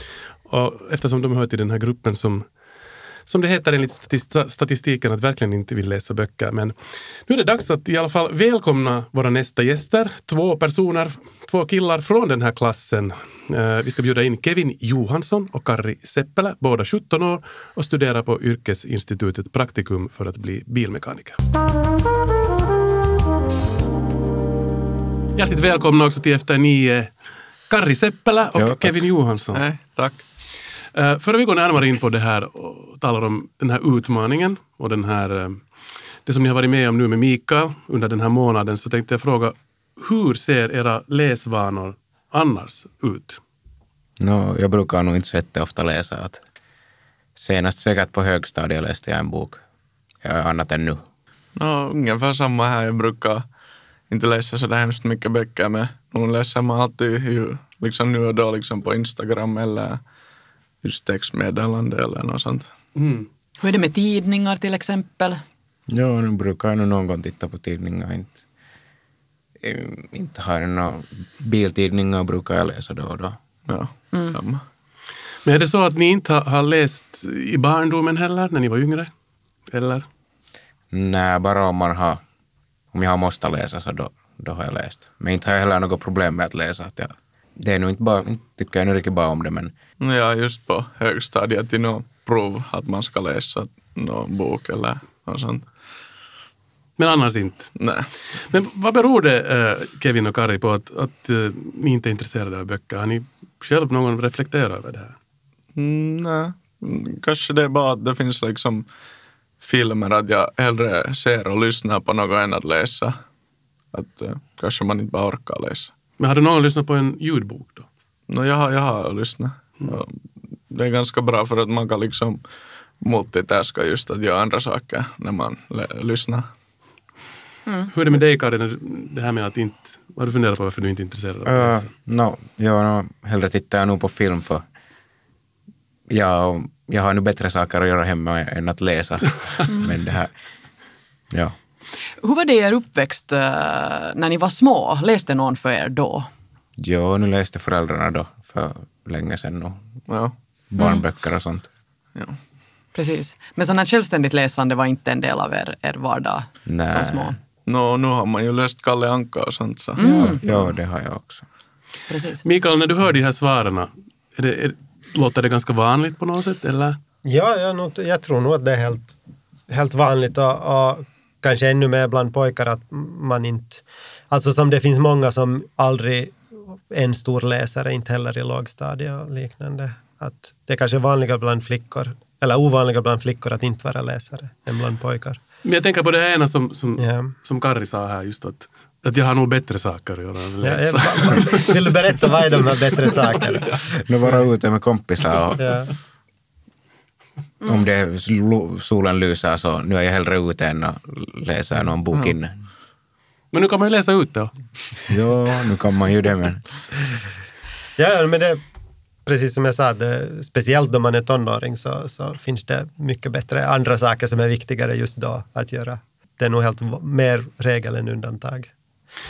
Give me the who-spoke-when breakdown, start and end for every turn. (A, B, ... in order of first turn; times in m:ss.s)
0:00.5-0:02.4 A
0:03.2-0:06.7 A
0:07.3-0:21.4 A
0:25.4-0:27.1 A
0:27.7-0:29.6 A
0:28.6-0:29.0 B
0:29.5-0:30.2 C
0:30.9-0:35.6 A
0:36.2-0:43.4 A
0:44.2-0:46.4 B
0:47.4-0:49.6 B
0:50.2-0:51.0 B
0:51.6-0:53.4 C
0:54.1-1:00.0 C
1:00.8-1:02.7 C
1:03.0-1:03.3 A
1:03.6-1:05.4 D
1:05.9-1:08.4 B
1:09.6-1:13.4 B
1:13.6-1:14.6 C
1:14.1-1:14.4 D
1:15.4-1:19.1 A
1:19.7-1:20.0 A
1:20.9-1:22.2 B
1:22.9-1:29.7 B
1:30.0-1:35.7 C
1:37.0-1:37.7 A
1:37.8-1:38.1 C
1:38.3-1:45.1 A
1:45.7-1:48.8 C
1:49.6-1:53.2 C
1:53.9-1:55.9 C
1:56.2-1:57.9 A
1:58.3-2:02.4 C
2:03.0-2:06.5 C
2:07.9-2:11.9 A
2:11.4-2:14.6 B
2:16.1-2:20.3 B
2:19.7-2:19.9 D
2:22.2-2:26.3 D
2:26.8-2:29.9 B
2:30.1-2:30.3 C
2:30.7-2:31.7 B
2:32.9-2:37.4 D
2:36.7-2:37.3 B
2:37.6-2:40.6 C
2:40.0-2:40.4 D
2:40.0-2:41.4 B
2:42.1-2:42.4 D
2:42.4-2:47.0 A
2:47.2-2:49.2 E
2:49.7-3:05.4 E
3:05.6-3:13.4 A
3:07.0-3:07.3 E
3:10.6-3:14.0 E
3:14.1-3:15.6 B
3:15.6-3:15.9 E
3:17.6-3:22.6 B
3:23.5-3:24.5 A
3:25.1-3:26.6 B
3:28.0-3:28.6 E
3:29.2-3:38.7 E